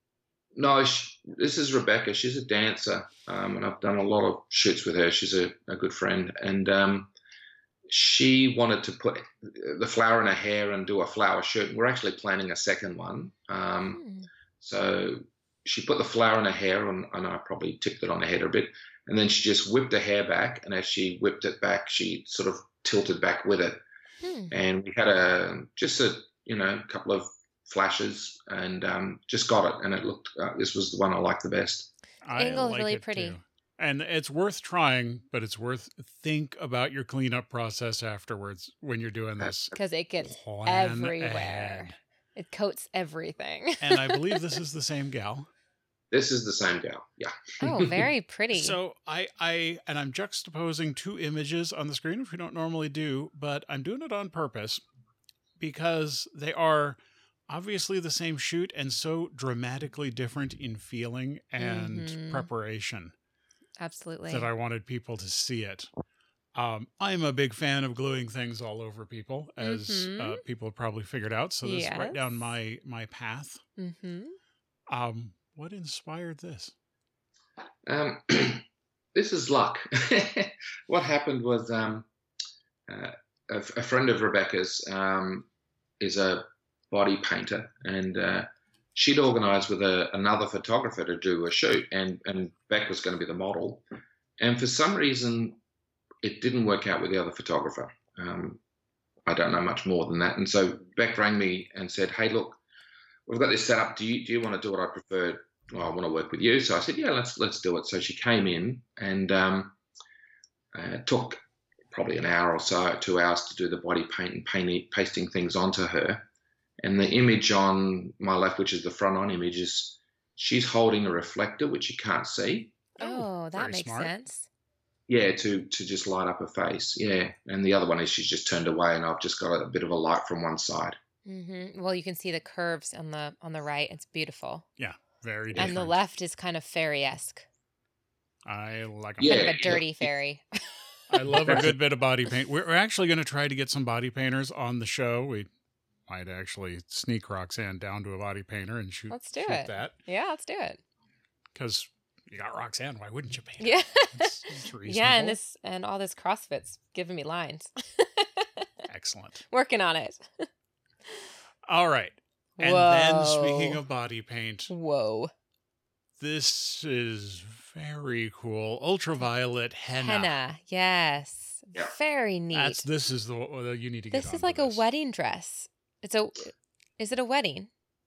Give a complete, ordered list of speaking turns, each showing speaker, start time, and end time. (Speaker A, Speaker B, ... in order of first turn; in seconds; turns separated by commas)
Speaker A: 0.6-7.1, Speaker A: 7.9-14.0, Speaker B: 13.9-14.3, Speaker A: 14.6-23.8, Speaker B: 24.2-24.5, Speaker A: 24.5-31.9, Speaker C: 32.2-42.0, Speaker B: 32.4-33.4, Speaker B: 39.7-44.5, Speaker C: 43.8-45.5, Speaker A: 46.1-48.1, Speaker B: 47.6-48.8, Speaker C: 48.5-54.8, Speaker C: 55.6-63.1, Speaker B: 61.6-62.5, Speaker B: 63.8-64.5, Speaker C: 64.3-65.9, Speaker C: 66.5-73.6, Speaker B: 69.6-70.4, Speaker B: 71.6-72.2, Speaker B: 73.8-74.4, Speaker C: 74.9-76.7, Speaker A: 77.9-82.1, Speaker A: 82.9-85.5, Speaker A: 86.0-93.8, Speaker A: 94.4-95.6, Speaker A: 96.2-98.6, Speaker A: 99.3-102.6, Speaker A: 103.3-109.8, Speaker A: 110.7-111.4, Speaker A: 111.9-116.2, Speaker A: 116.8-122.8, Speaker B: 123.0-124.5, Speaker C: 123.0-124.1, Speaker A: 125.1-131.0, Speaker B: 131.3-134.7, Speaker C: 134.8-136.0, Speaker B: 135.6-137.5, Speaker C: 138.4-139.6, Speaker A: 139.2-140.1, Speaker B: 139.2-141.6, Speaker C: 141.1-145.5, Speaker A: 141.5-141.8, Speaker C: 146.1-150.0, Speaker B: 149.1-150.8, Speaker C: 151.5-155.4, Speaker B: 153.6-158.7, Speaker C: 158.9-159.4, Speaker B: 159.5-160.5, Speaker C: 161.7-164.7, Speaker B: 162.6-163.8, Speaker B: 164.7-165.3, Speaker C: 166.2-170.3, Speaker B: 170.0-172.8, Speaker C: 172.5-174.8, Speaker B: 174.1-177.7